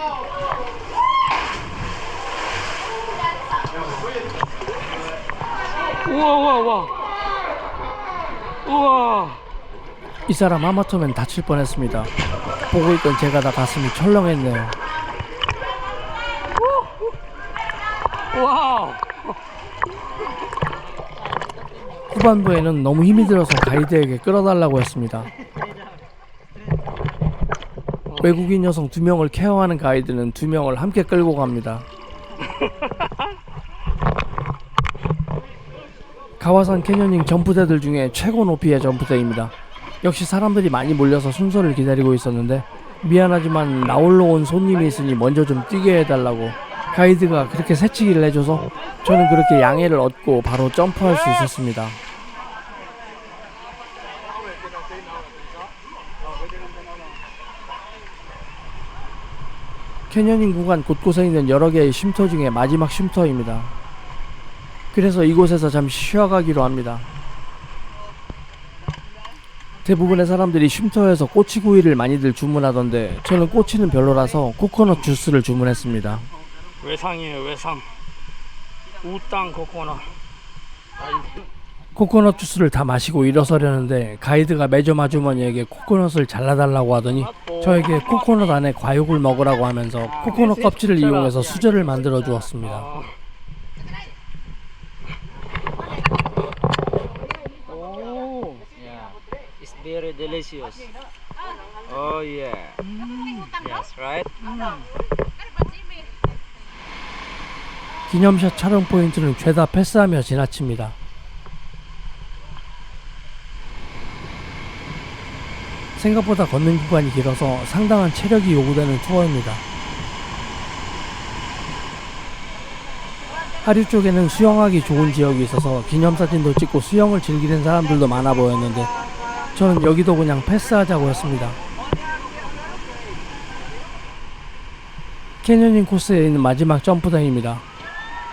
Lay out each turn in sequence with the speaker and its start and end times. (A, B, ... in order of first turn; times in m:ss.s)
0:06.0-0:06.9 A
0:08.6-0:09.4 A
0:10.3-0:12.1 B
0:12.7-0:14.8 B
0:16.6-0:17.0 A
0:18.3-0:19.4 A
0:22.1-0:25.3 B
0:28.1-0:28.4 A
0:28.2-0:31.8 B
0:32.6-0:33.2 A
0:36.4-0:52.0 B
1:00.1-1:03.7 B
1:04.9-1:07.1 B
1:09.8-1:16.3 B
1:16.8-1:17.9 A
1:19.0-1:20.1 A
1:21.9-1:32.9 B
1:27.1-1:28.5 A
1:30.1-1:31.4 A
1:31.4-1:32.0 C
1:32.6-1:33.1 A
1:37.7-1:38.6 A
1:38.8-1:40.9 C
1:41.8-1:42.8 C
1:43.5-1:44.3 C
1:48.1-1:50.9 B
1:56.0-1:59.6 B
2:03.6-2:08.9 B
2:09.5-2:11.6 B
2:15.4-2:17.6 B